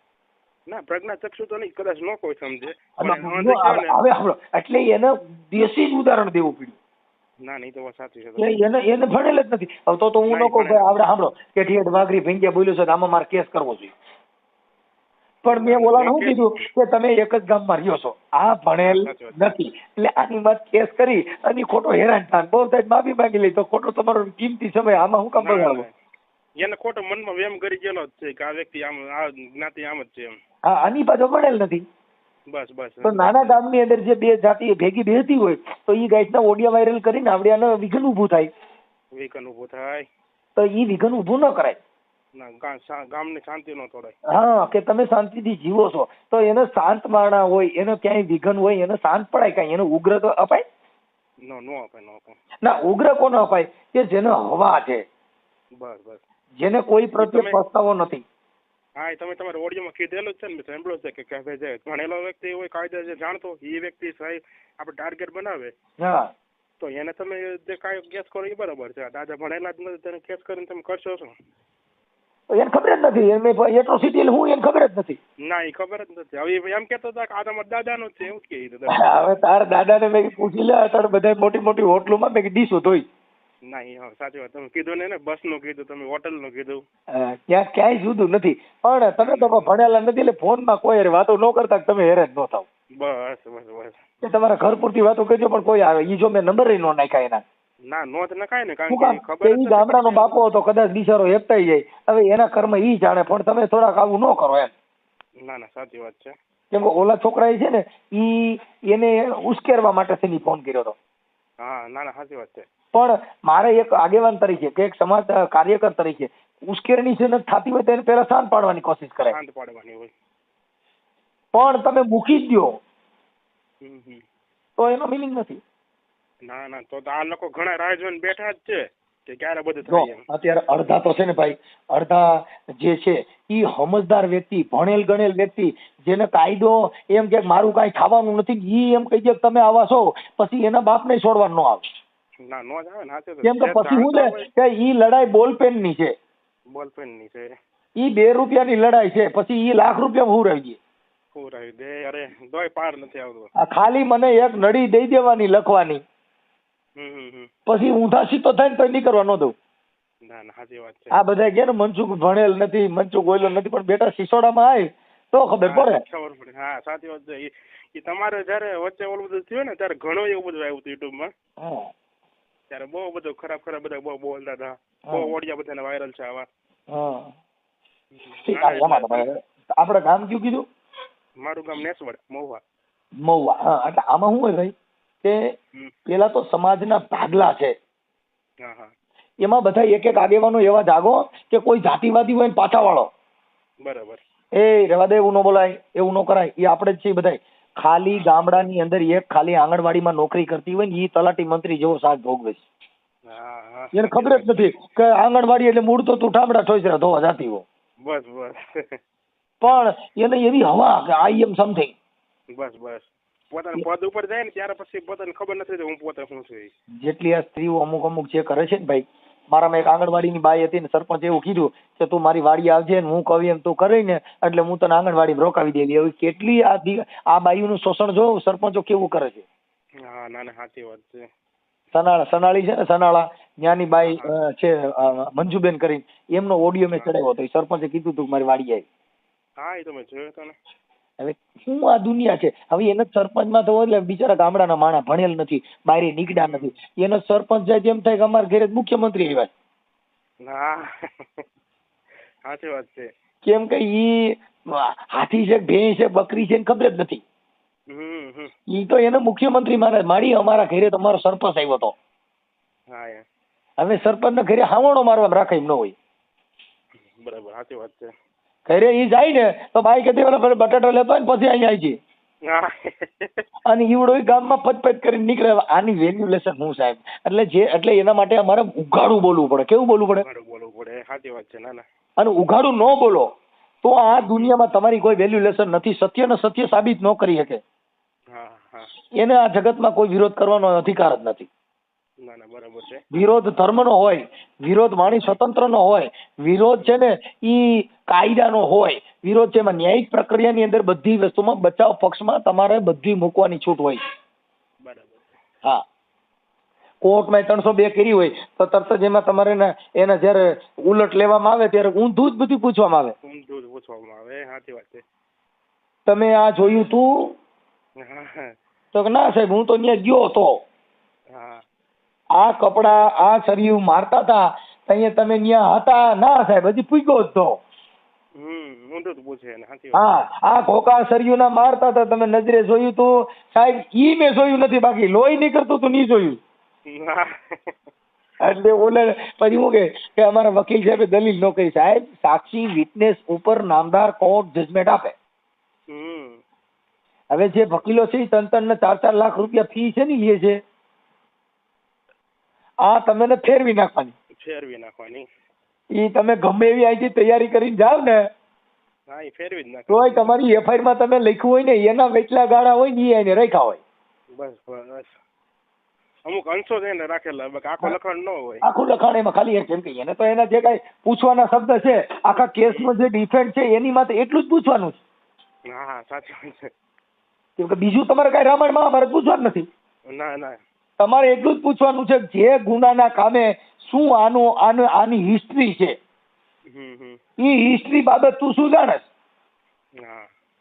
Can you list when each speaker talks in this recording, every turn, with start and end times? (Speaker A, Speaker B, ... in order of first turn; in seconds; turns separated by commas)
Speaker A: 0.7-4.0, Speaker B: 3.0-6.8, Speaker A: 7.4-8.6, Speaker B: 8.4-13.9, Speaker A: 10.3-10.9, Speaker B: 15.4-25.8, Speaker A: 15.4-16.6, Speaker A: 18.8-19.5, Speaker A: 25.4-25.9, Speaker A: 26.6-30.3, Speaker B: 30.7-31.8, Speaker A: 32.5-33.6, Speaker B: 33.0-38.5, Speaker A: 39.1-40.0, Speaker B: 40.5-41.8, Speaker A: 42.4-44.1, Speaker B: 44.3-50.6, Speaker A: 51.4-52.4, Speaker B: 52.6-55.0, Speaker A: 55.8-56.2, Speaker B: 56.6-58.2, Speaker A: 57.2-57.6, Speaker A: 59.0-65.7, Speaker B: 66.0-66.3, Speaker A: 66.8-71.3, Speaker B: 72.5-75.2, Speaker A: 75.5-79.3, Speaker B: 78.9-83.1, Speaker A: 83.7-86.8, Speaker B: 87.1-92.7, Speaker A: 89.2-89.7, Speaker A: 93.0-94.0, Speaker B: 94.2-97.4, Speaker A: 97.9-100.3, Speaker B: 98.9-104.7, Speaker A: 105.4-106.3, Speaker B: 106.7-111.0, Speaker A: 111.6-112.7, Speaker B: 112.9-119.3, Speaker A: 119.2-120.1, Speaker B: 121.5-122.8, Speaker A: 123.8-124.2, Speaker B: 124.8-125.6, Speaker A: 126.5-130.2, Speaker B: 129.9-141.8, Speaker A: 142.4-144.5, Speaker B: 143.4-146.1, Speaker A: 146.7-147.5, Speaker B: 148.0-150.8, Speaker A: 151.3-153.5, Speaker B: 153.6-156.0, Speaker A: 157.0-157.5, Speaker B: 157.7-159.5, Speaker A: 160.2-161.2, Speaker B: 161.1-166.0, Speaker A: 165.6-171.3, Speaker B: 171.6-171.9, Speaker A: 172.7-176.5, Speaker B: 175.1-175.3, Speaker B: 176.9-177.3, Speaker A: 178.2-179.2, Speaker B: 178.4-180.6, Speaker A: 181.4-182.6, Speaker B: 183.2-185.5, Speaker B: 186.1-187.7, Speaker A: 188.6-188.9, Speaker B: 189.4-193.1, Speaker A: 193.8-194.2, Speaker B: 194.6-202.6, Speaker A: 198.1-198.7, Speaker A: 203.3-204.7, Speaker B: 203.9-207.6, Speaker A: 208.0-208.6, Speaker B: 209.6-211.9, Speaker A: 212.5-216.7, Speaker B: 217.0-229.4, Speaker A: 230.1-231.2, Speaker B: 231.9-238.8, Speaker A: 234.0-234.3, Speaker A: 239.6-240.6, Speaker B: 241.2-249.5, Speaker A: 246.3-246.7, Speaker A: 250.4-251.4, Speaker A: 252.4-253.1, Speaker B: 253.4-257.2, Speaker A: 257.9-258.5, Speaker B: 258.7-261.9, Speaker A: 262.9-263.2, Speaker B: 263.8-265.9, Speaker A: 267.2-268.1, Speaker B: 268.7-272.0, Speaker A: 272.5-273.4, Speaker B: 273.7-280.2, Speaker A: 280.2-281.8, Speaker B: 282.2-283.3, Speaker B: 283.8-287.6, Speaker A: 284.2-284.6, Speaker A: 288.3-288.9, Speaker B: 289.2-291.5, Speaker A: 292.2-293.0, Speaker B: 293.1-304.0, Speaker A: 295.0-295.4, Speaker A: 304.8-305.3, Speaker B: 307.0-313.1, Speaker A: 313.2-315.0, Speaker B: 316.1-317.3, Speaker A: 318.0-318.4, Speaker B: 318.9-320.5, Speaker A: 321.3-321.6, Speaker B: 322.4-327.5, Speaker A: 328.4-330.1, Speaker B: 329.9-336.4, Speaker A: 336.9-337.7, Speaker B: 338.4-345.1, Speaker A: 345.9-346.4, Speaker B: 347.3-350.6, Speaker A: 347.5-347.8, Speaker B: 352.8-354.1, Speaker A: 354.4-355.2, Speaker B: 355.9-358.2, Speaker A: 359.1-360.4, Speaker B: 359.9-363.8, Speaker A: 364.3-365.1, Speaker A: 366.3-368.6, Speaker B: 368.6-375.0, Speaker A: 372.4-372.9, Speaker A: 375.7-376.7, Speaker B: 377.6-379.6, Speaker A: 380.1-380.6, Speaker B: 381.0-385.9, Speaker A: 386.7-387.2, Speaker B: 387.4-389.1, Speaker A: 390.0-390.3